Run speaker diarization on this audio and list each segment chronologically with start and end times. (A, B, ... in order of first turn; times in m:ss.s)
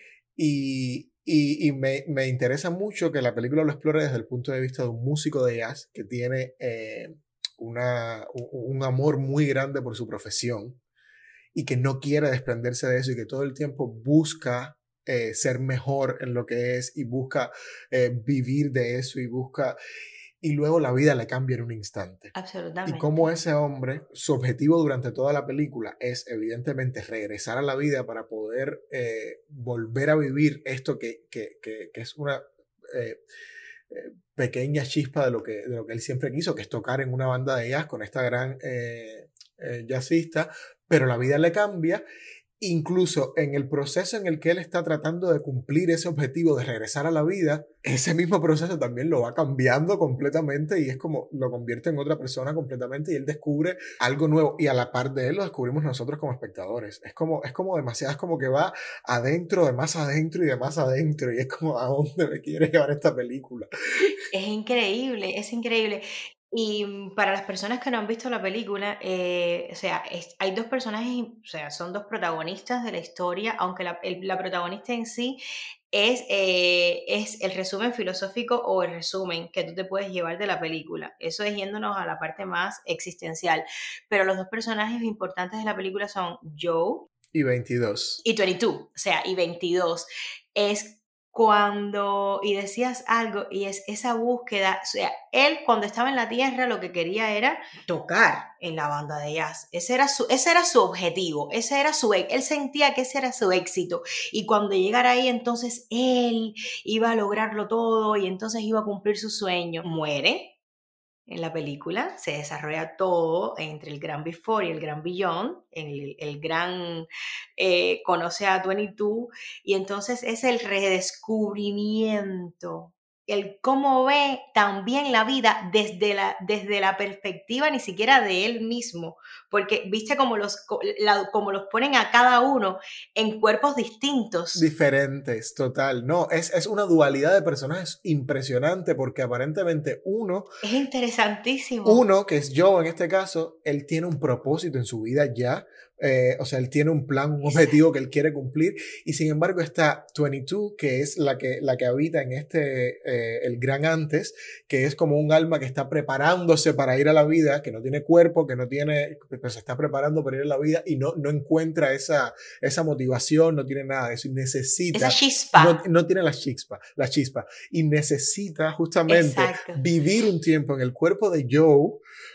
0:00.4-0:10.8 A
0:11.5-0:19.8 A
0:20.4-0:22.3 A
0:22.3-0:23.3 B
0:22.8-0:33.2 A
0:33.9-0:42.0 A
0:42.6-1:03.7 A
1:04.3-1:15.4 B
1:15.9-1:27.1 B
1:27.3-1:28.2 A
1:28.2-1:50.5 B
1:51.3-2:14.6 B
2:14.5-2:20.5 A
2:20.6-2:22.0 B
2:21.8-2:52.0 A
2:27.4-2:27.8 B
2:44.9-2:45.8 B
2:49.1-2:49.8 B